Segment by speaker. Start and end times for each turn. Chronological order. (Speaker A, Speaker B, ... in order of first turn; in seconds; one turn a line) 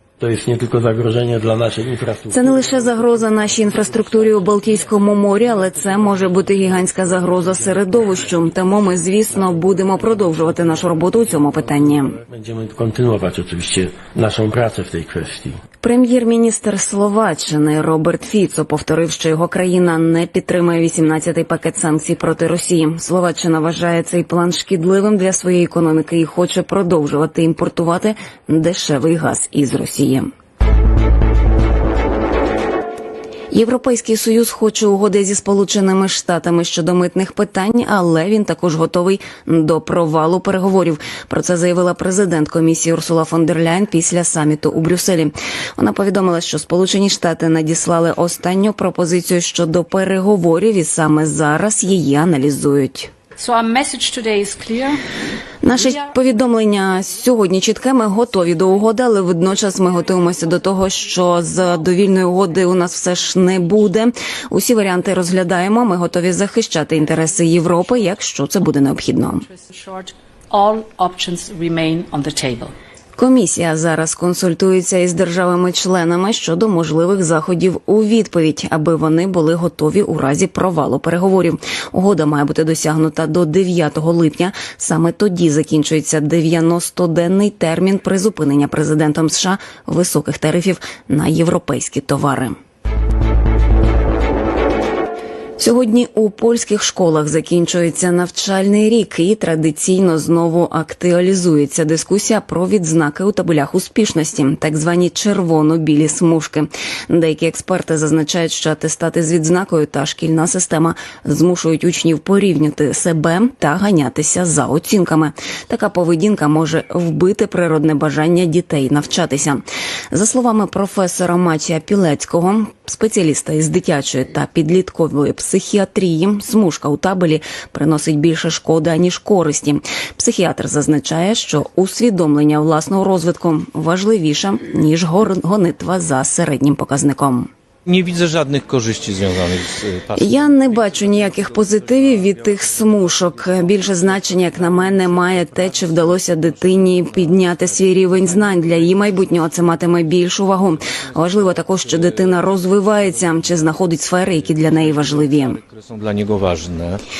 Speaker A: 0.2-15.6
Speaker B: 2.3-12.2
Speaker B: 15.8-30.3
Speaker B: 33.5-53.1
Speaker C: 53.4-55.0
Speaker B: 55.6-69.5
Speaker C: 55.7-56.1
Speaker C: 59.8-61.7
Speaker C: 67.0-68.1
Speaker C: 69.2-72.7
Speaker B: 73.2-92.6
Speaker B: 95.6-137.5
Speaker D: 137.8-149.6
Speaker B: 140.2-155.6
Speaker D: 150.7-157.0